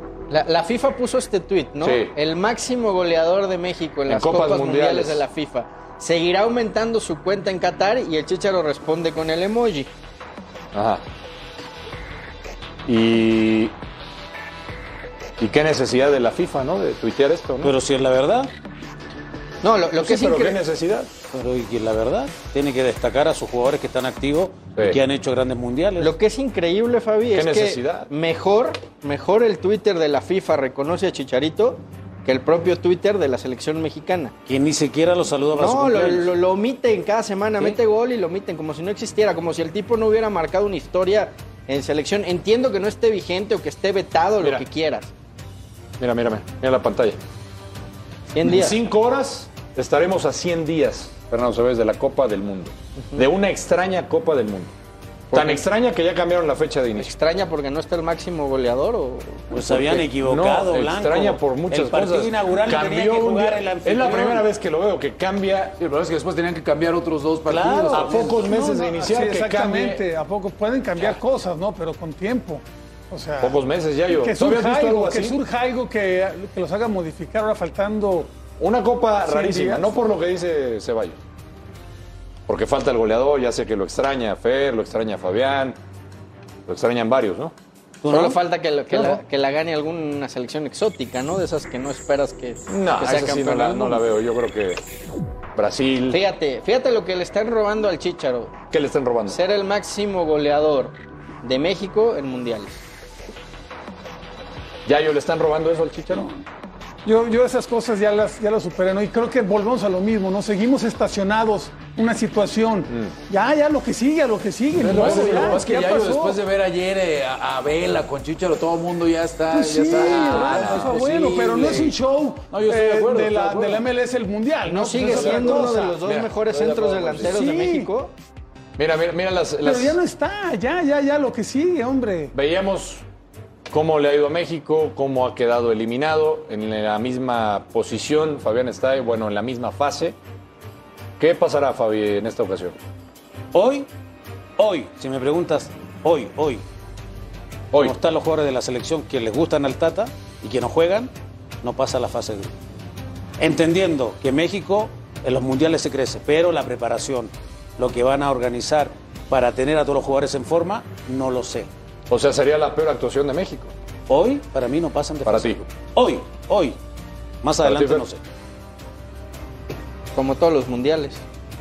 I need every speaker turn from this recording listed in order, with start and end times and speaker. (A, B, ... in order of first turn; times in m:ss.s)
0:00.3-0:09.9 A
0:01.8-0:02.1 B
0:04.1-0:05.2 B
0:10.7-0:11.0 B
0:12.9-0:13.8 B
0:15.4-0:17.7 B
0:17.6-0:18.5 C
0:19.6-0:20.6 A
0:20.0-0:21.1 B
0:21.3-0:26.2 C
0:26.0-0:34.3 A
0:27.3-0:28.1 B
0:34.5-0:36.3 C
0:35.6-0:45.1 A
0:46.0-0:47.2 B
0:48.3-0:48.8 A
0:48.4-0:54.7 B
0:53.0-0:53.2 A
0:55.3-0:55.6 A
0:55.3-0:57.1 B
0:57.0-0:59.8 A
0:59.5-1:04.5 C
0:59.8-1:05.8 B
1:05.8-1:08.2 D
1:07.5-1:08.5 C
1:07.9-1:10.0 B
1:08.2-1:13.6 E
1:13.4-1:15.4 B
1:14.1-1:18.3 E
1:18.6-1:21.2 B
1:19.2-1:20.0 E
1:22.5-1:25.8 B
1:26.7-1:27.5 B
1:28.0-1:28.4 C
1:28.1-1:34.0 A
1:28.9-1:29.2 C
1:32.7-1:34.8 B
1:35.6-1:36.2 B
1:36.1-1:38.6 A
1:38.7-1:39.4 B
1:39.3-1:42.8 A
1:44.9-1:46.3 B
1:47.0-1:56.4 E
1:52.9-1:53.2 B
1:54.8-2:02.0 D
1:54.9-1:55.6 B
1:59.5-2:06.0 E
2:00.4-2:00.9 B
2:02.5-2:03.9 D
2:04.7-2:08.1 A
2:05.1-2:05.5 D
2:06.0-2:06.3 B
2:06.3-2:07.4 D
2:07.2-2:07.9 E
2:08.8-2:10.0 B
2:09.6-2:12.3 E
2:12.3-2:13.0 B
2:13.7-2:20.2 B
2:21.2-2:22.8 B
2:23.5-2:23.9 C
2:24.6-2:26.6 C
2:27.8-2:32.6 C
2:33.4-2:41.7 C
2:42.1-2:43.7 B
2:44.1-2:46.8 C
2:45.2-2:45.6 B
2:47.4-2:48.2 C
2:47.6-2:48.0 B
2:50.2-2:51.2 A